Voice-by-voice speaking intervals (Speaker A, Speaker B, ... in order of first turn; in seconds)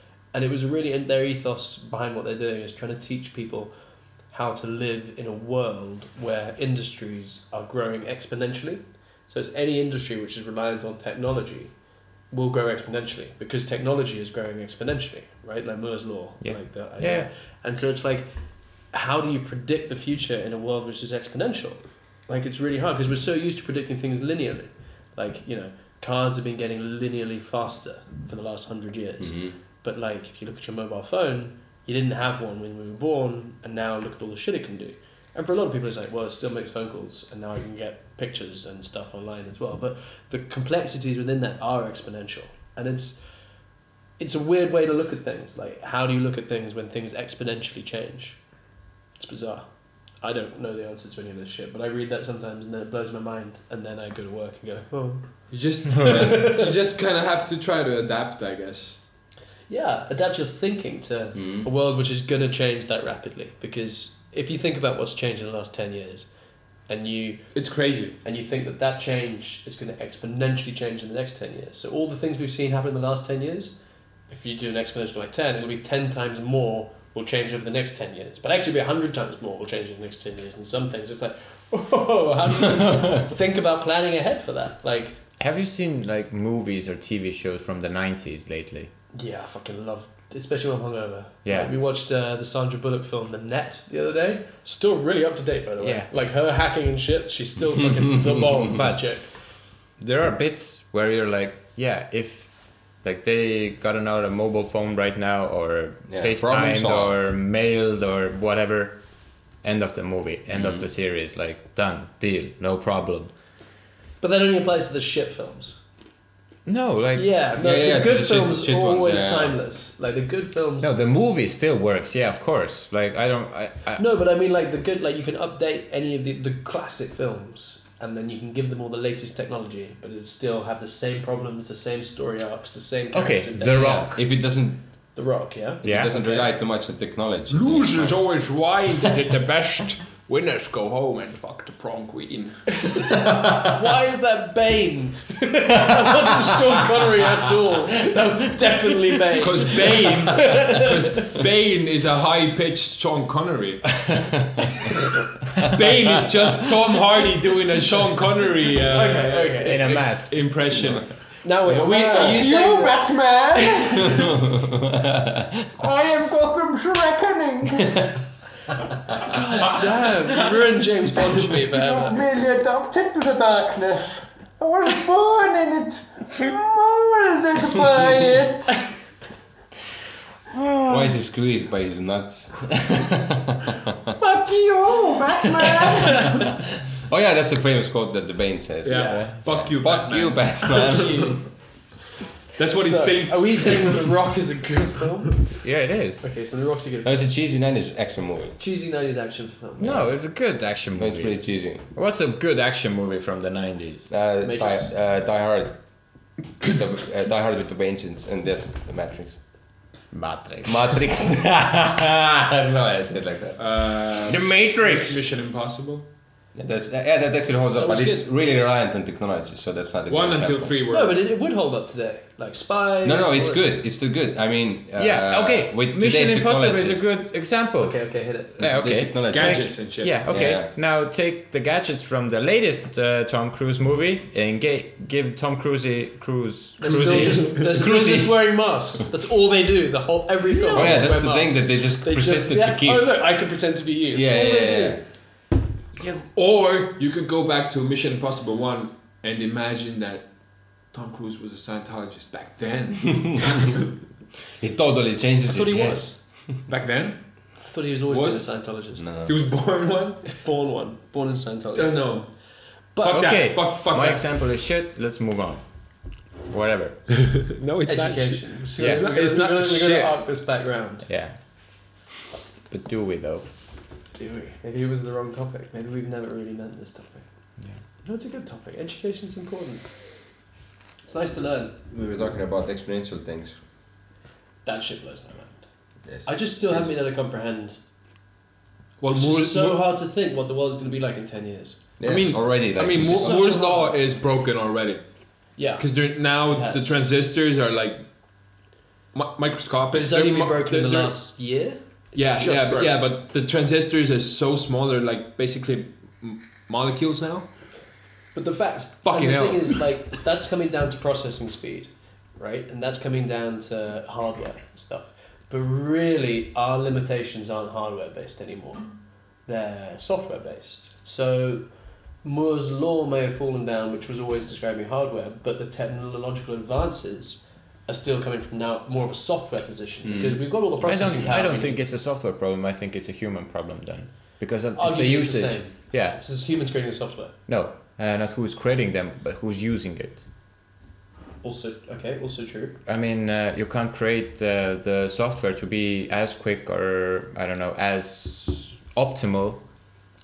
Speaker A: 0.3-3.7, 4.3-11.7, 12.3-18.3, 18.9-43.2, 44.2-48.4, 49.2-56.7, 59.7-66.3, 66.9-67.6, 68.2-73.8, 74.3-85.2, 89.1-99.3, 114.2-115.8, 117.2-120.9, 124.0-134.4, 135.2-136.5, 142.9-151.3, 158.9-160.0, 161.4-163.0, 169.3-172.2, 188.9-189.3, 192.7-195.6, 196.2-197.3, 198.6-200.1, 204.4-204.9, 217.8-218.3, 220.9-223.6, 227.8-228.6, 236.8-245.0, 255.4-256.1, 257.6-259.1, 260.3-262.2, 262.9-263.2, 267.9-271.1, 274.1-277.3, 278.0-280.1, 281.0-281.8, 284.6-285.7, 286.2-287.8, 289.1-291.8, 292.9-293.9, 295.6-296.9, 299.9-302.9, 308.3-318.9, 319.4-331.8, 334.8-337.4, 341.4-342.8
Speaker B: 16.4-17.3, 85.4-88.9, 91.4-91.7, 95.8-96.1, 98.8-99.1, 100.0-109.0, 109.6-113.3, 116.7-117.3, 120.8-124.0, 133.1-134.2, 135.8-136.3, 159.6-161.0, 189.1-189.7, 195.6-196.3, 199.8-204.1, 210.1-211.2, 214.3-215.2, 225.0-237.9, 240.7-240.9, 263.1-267.2, 268.8-269.1, 271.1-271.8, 272.7-273.5, 330.8-336.2, 337.5-340.2, 342.9-349.9
Speaker C: 29.2-29.6, 61.4-61.7, 98.3-98.6, 106.1-107.2, 110.5-110.8, 117.6-119.6, 133.6-134.8, 135.8-138.2, 180.9-183.6, 187.1-191.4, 197.0-198.6, 200.9-201.9, 204.1-209.7, 210.6-214.2, 216.5-220.8, 223.0-227.1, 228.6-230.7, 236.9-238.6, 240.7-243.2, 244.1-245.0, 254.6-256.5, 259.0-259.4, 281.9-283.6, 286.1-286.9, 292.0-293.4, 330.0-330.5
Speaker D: 55.5-59.0, 67.5-68.2, 137.5-143.2, 149.4-154.1, 155.6-162.4, 188.8-191.5, 192.6-194.1, 213.6-216.1, 220.1-221.2, 229.3-230.2, 246.0-253.8, 256.7-258.4, 259.2-260.4, 261.8-262.4, 263.0-264.3, 267.5-270.2, 289.0-289.8, 292.1-298.1, 299.1-301.2, 302.1-307.5, 309.1-309.9
Speaker E: 162.2-164.4, 165.8-168.2, 169.4-169.9, 171.6-178.9, 184.2-186.5